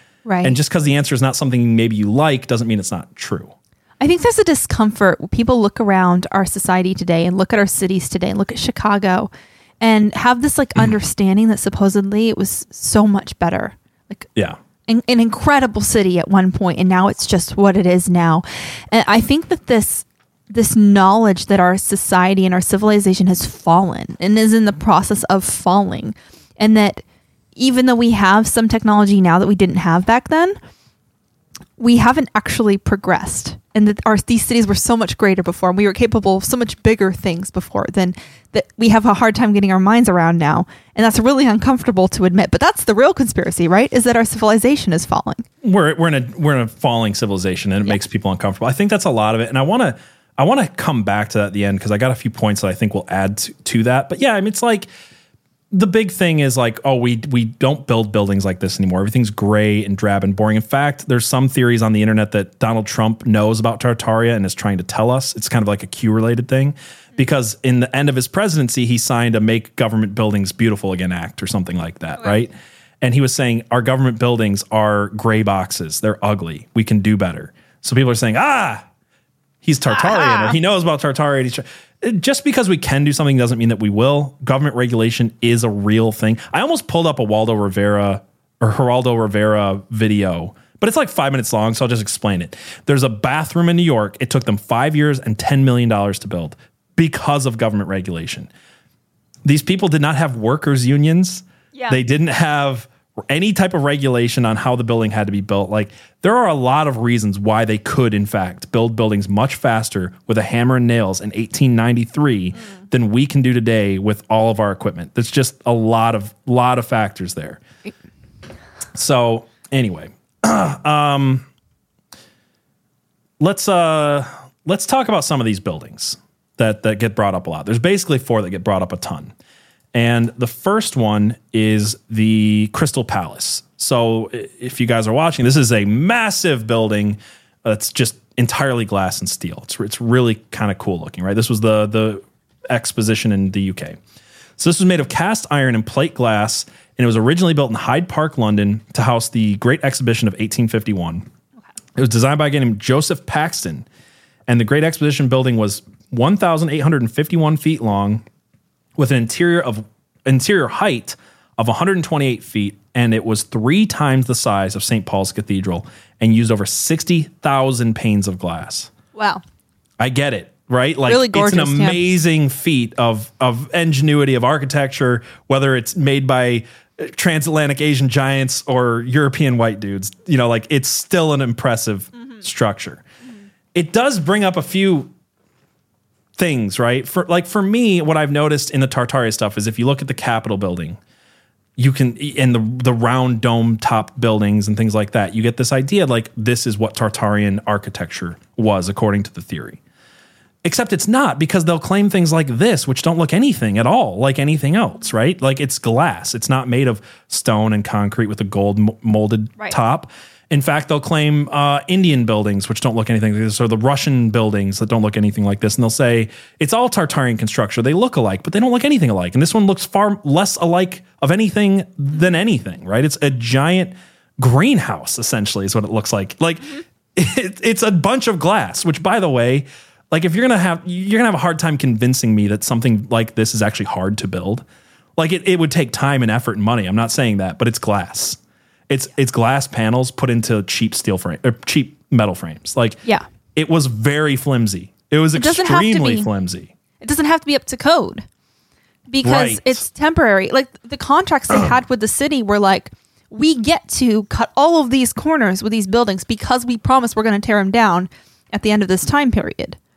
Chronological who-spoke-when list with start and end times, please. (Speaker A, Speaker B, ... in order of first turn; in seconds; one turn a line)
Speaker A: 0.2-0.6
Speaker B: 0.4-3.5
Speaker A: 4.0-9.3
Speaker A: 9.8-14.3
Speaker A: 14.9-27.0
Speaker A: 27.6-30.6
Speaker A: 31.8-45.4
Speaker B: 45.6-54.9
Speaker B: 55.7-78.8
Speaker B: 79.6-98.5
Speaker A: 79.9-80.6
Speaker B: 99.4-117.6
Speaker B: 118.9-121.5
Speaker B: 123.4-129.3
Speaker B: 129.9-144.0
Speaker B: 144.6-151.2
Speaker B: 151.9-153.8
Speaker B: 154.5-158.2
Speaker B: 158.9-168.9
Speaker A: 169.1-169.4
Speaker B: 170.0-183.0
Speaker A: 171.1-172.1
Speaker B: 183.7-185.1
Speaker B: 186.4-191.0
Speaker B: 191.8-199.8
Speaker B: 200.6-234.7
Speaker B: 235.2-243.0
Speaker B: 243.5-246.7
Speaker A: 245.3-246.3
Speaker A: 247.0-248.2
Speaker A: 249.1-259.8
Speaker B: 249.2-249.8